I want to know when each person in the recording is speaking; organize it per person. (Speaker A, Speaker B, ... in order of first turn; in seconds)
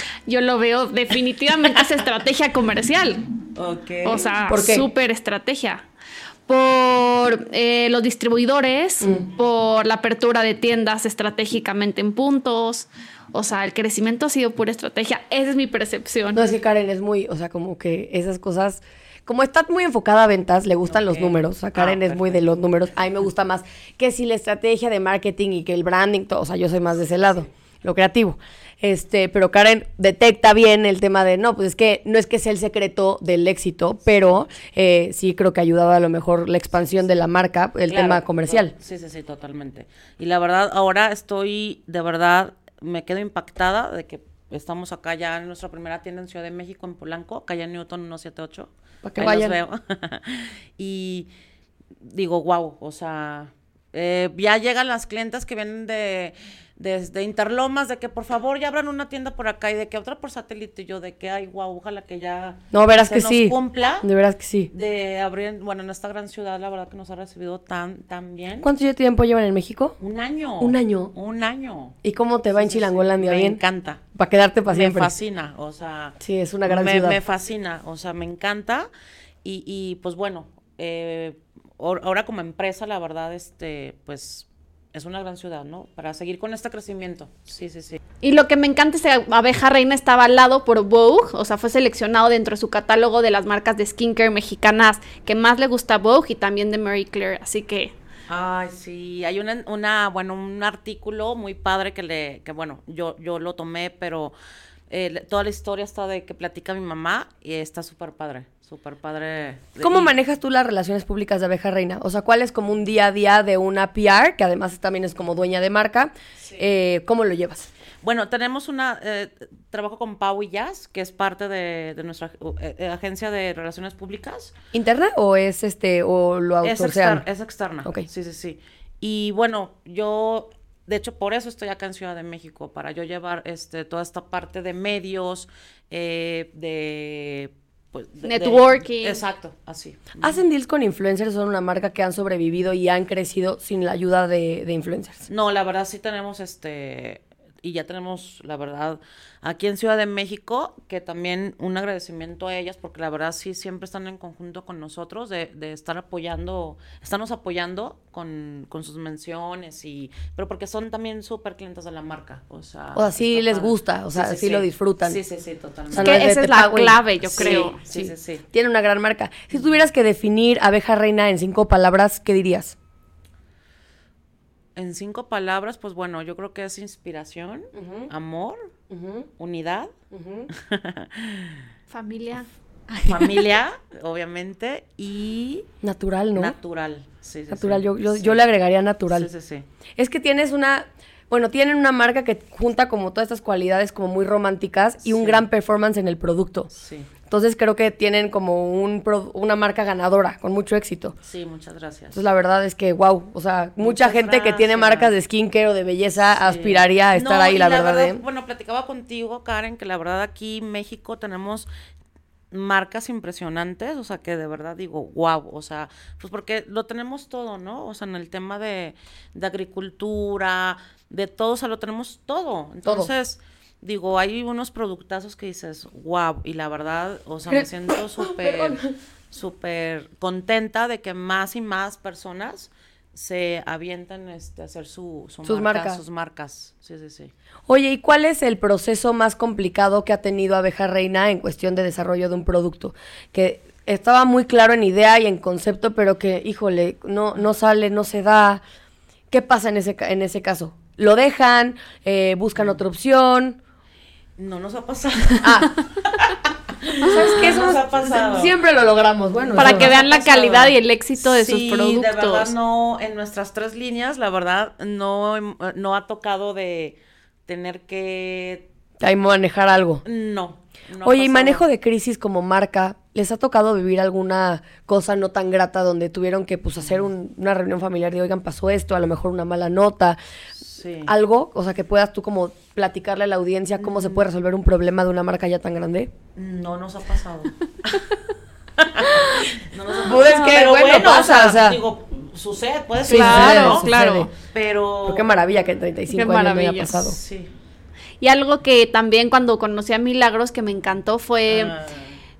Speaker A: 0.3-3.2, 4.0-5.8, 6.5-16.4, 88.2-97.9, 138.2-139.2, 166.0-167.8, 181.9-183.3, 259.6-262.5, 293.1-294.3, 296.1-297.0, 298.2-301.7
Speaker B: 3.5-4.3, 20.9-22.5, 37.9-51.3, 52.0-64.1, 64.7-68.7, 70.0-72.0, 72.5-74.0, 74.7-78.9, 79.4-88.0, 98.3-104.3, 104.9-110.1, 118.0-124.5, 126.6-140.4, 145.3-166.2, 167.2-168.4, 174.8-178.7, 179.4-179.9, 180.5-181.6, 183.0-185.7, 186.3-188.4, 189.1-189.7, 195.0-195.4, 196.7-197.1, 201.2-202.2, 203.8-205.1, 206.3-211.7, 212.5-228.8, 229.3-237.3, 254.4-258.6, 259.4-268.7, 270.0-271.6, 276.8-277.1, 280.6-281.1, 283.8-284.2, 286.3-288.1, 288.8-295.3, 297.0-297.5, 301.5-302.2
Speaker C: 4.5-4.8, 9.0-9.2, 16.3-38.7, 49.0-49.5, 62.7-64.7, 68.6-70.0, 70.6-71.1, 72.0-73.6, 74.1-75.1, 76.2-77.2, 109.8-117.7, 124.7-127.2, 140.2-145.2, 162.9-165.2, 165.9-172.8, 177.7-178.1, 178.9-179.3, 180.1-180.5, 185.8-186.6, 187.5-189.3, 190.0-196.7, 197.3-201.1, 202.1-208.2, 222.8-223.1, 227.5-228.9, 235.4-236.0, 237.7-248.6, 249.3-253.6, 255.4-255.7, 257.0-259.9, 269.0-270.0, 271.0-280.2, 281.1-286.1, 290.0-291.8, 293.1-294.3, 295.1-297.2